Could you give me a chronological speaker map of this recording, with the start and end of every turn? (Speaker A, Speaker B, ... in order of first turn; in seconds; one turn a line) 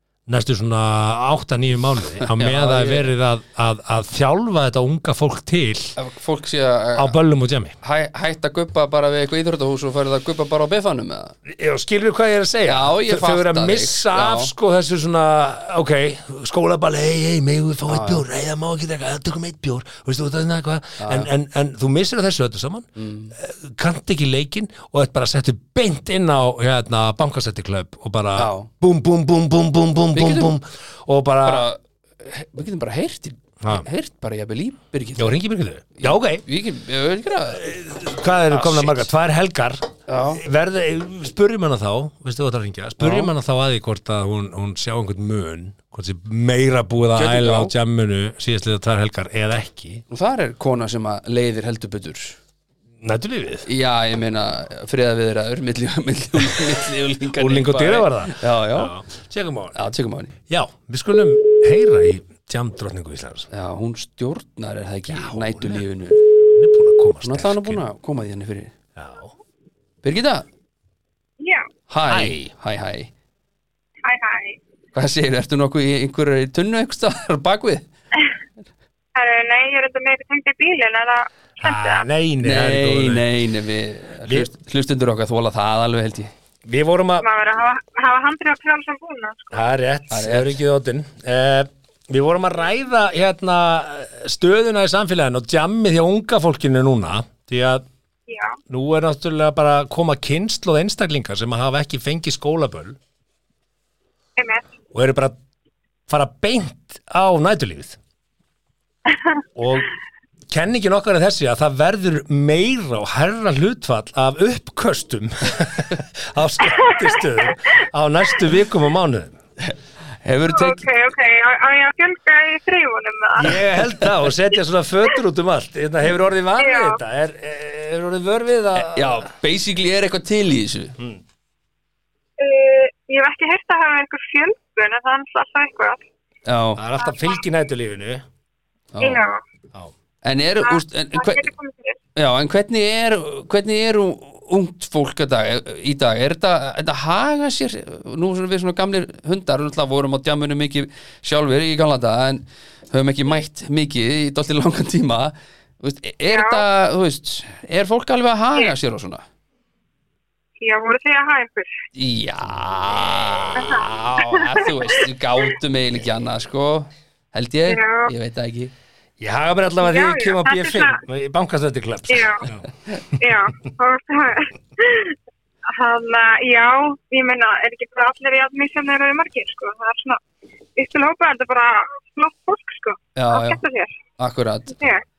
Speaker A: 0.3-6.0
Speaker B: 2.3-3.1
Speaker B: 6.0-7.2
Speaker A: 7.0-7.8
Speaker B: 7.8-11.4
Speaker A: 11.5-31.7
Speaker B: 12.7-14.5
Speaker B: 17.9-18.2
Speaker B: 21.0-21.3
Speaker B: 23.0-23.3
Speaker B: 28.4-28.7
Speaker B: 30.1-30.6
Speaker B: 31.4-35.4
Speaker A: 35.2-36.4
Speaker B: 36.0-37.9
Speaker A: 37.5-50.0
Speaker B: 38.5-39.1
Speaker B: 40.1-40.4
Speaker B: 43.0-43.3
Speaker B: 47.1-47.7
Speaker B: 50.1-52.4
Speaker A: 53.0-53.7
Speaker B: 53.7-58.9
Speaker A: 57.4-59.8
Speaker B: 59.8-60.3
Speaker A: 60.5-63.5
Speaker B: 63.5-66.2
Speaker A: 65.1-67.8
Speaker B: 67.2-68.7
Speaker A: 69.0-69.3
Speaker B: 70.0-70.5
Speaker C: 71.4-71.7
Speaker B: 71.9-73.1
Speaker A: 72.1-72.5
Speaker C: 74.0-74.6
Speaker B: 74.9-77.9
Speaker C: 79.2-82.0
Speaker A: 81.6-83.3
Speaker B: 82.4-86.3
Speaker A: 86.7-87.3
Speaker C: 87.2-89.6
Speaker A: 89.5-97.8
Speaker B: 90.1-90.5
Speaker C: 98.3-98.6
Speaker A: 98.7-103.0
Speaker C: 104.4-104.7
Speaker A: 104.9-105.3
Speaker A: 106.1-108.0
Speaker A: 109.6-109.9
Speaker A: 110.5-119.3
Speaker B: 119.6-120.9
Speaker C: 120.5-123.6
Speaker A: 123.4-129.2
Speaker C: 126.6-127.0
Speaker B: 128.8-131.0
Speaker C: 132.4-136.0
Speaker B: 136.5-136.8
Speaker A: 136.8-138.2
Speaker C: 137.0-137.4
Speaker B: 138.9-139.2
Speaker C: 139.0-139.4
Speaker B: 140.2-141.5
Speaker C: 140.7-142.0
Speaker B: 142.2-159.2
Speaker C: 156.3-156.7
Speaker C: 160.6-161.8
Speaker B: 161.9-168.7
Speaker C: 163.6-164.5
Speaker C: 167.7-168.1
Speaker A: 169.2-172.7
Speaker C: 169.8-171.0
Speaker C: 172.1-172.5
Speaker C: 173.2-175.2
Speaker C: 175.7-180.2
Speaker C: 180.8-184.0
Speaker B: 183.2-183.6
Speaker B: 184.2-184.8
Speaker C: 184.7-185.0